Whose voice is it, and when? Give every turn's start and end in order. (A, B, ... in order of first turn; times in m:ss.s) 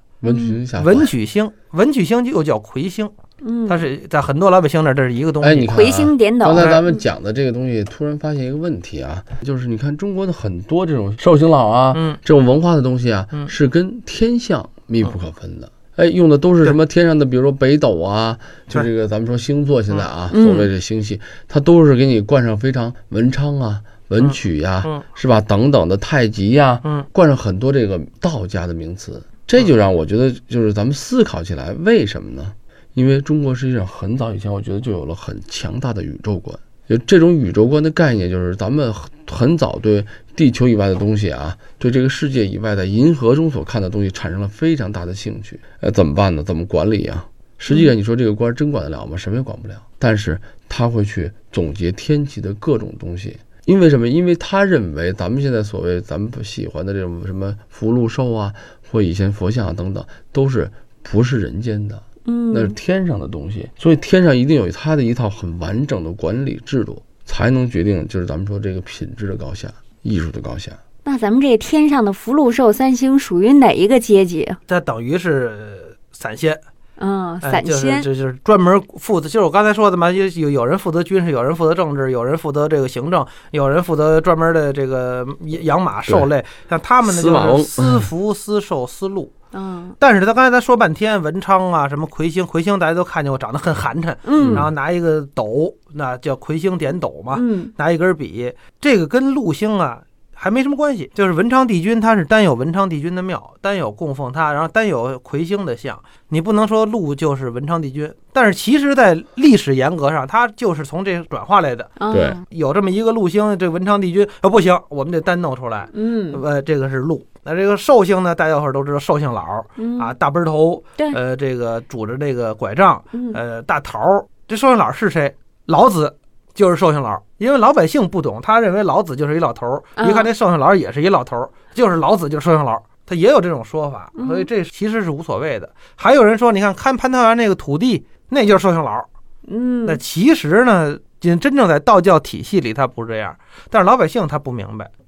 0:00.2-0:01.1 A
0:00.3-0:00.6 B
0:00.7-0:03.1 C
0:03.4-0:03.8 B
0:03.7-0:05.7 C
0:05.4-1:10.8 A
0:05.7-0:07.0 B
0:11.9-0:12.2 C
0:20.3-0:20.7 B
0:24.2-0:25.0 C
1:02.3-1:02.7 B
1:11.0-1:14.6 B
1:14.7-1:16.6 C
1:17.0-1:18.1 B
1:17.4-1:29.3 C
1:27.0-1:28.1 A
1:29.5-1:30.0 B
1:30.0-1:52.0 C
1:34.3-1:34.7 B
1:34.4-1:34.7 A
1:37.3-1:37.7 B
1:52.0-1:52.4 B
1:52.1-1:52.4 A
1:52.5-2:19.1 C
1:55.9-1:56.4 B
1:59.8-2:00.2 B
2:03.1-2:03.4 B
2:10.0-2:10.3 B
2:14.2-2:14.5 B
2:19.5-2:20.0 B
2:19.9-2:24.9 C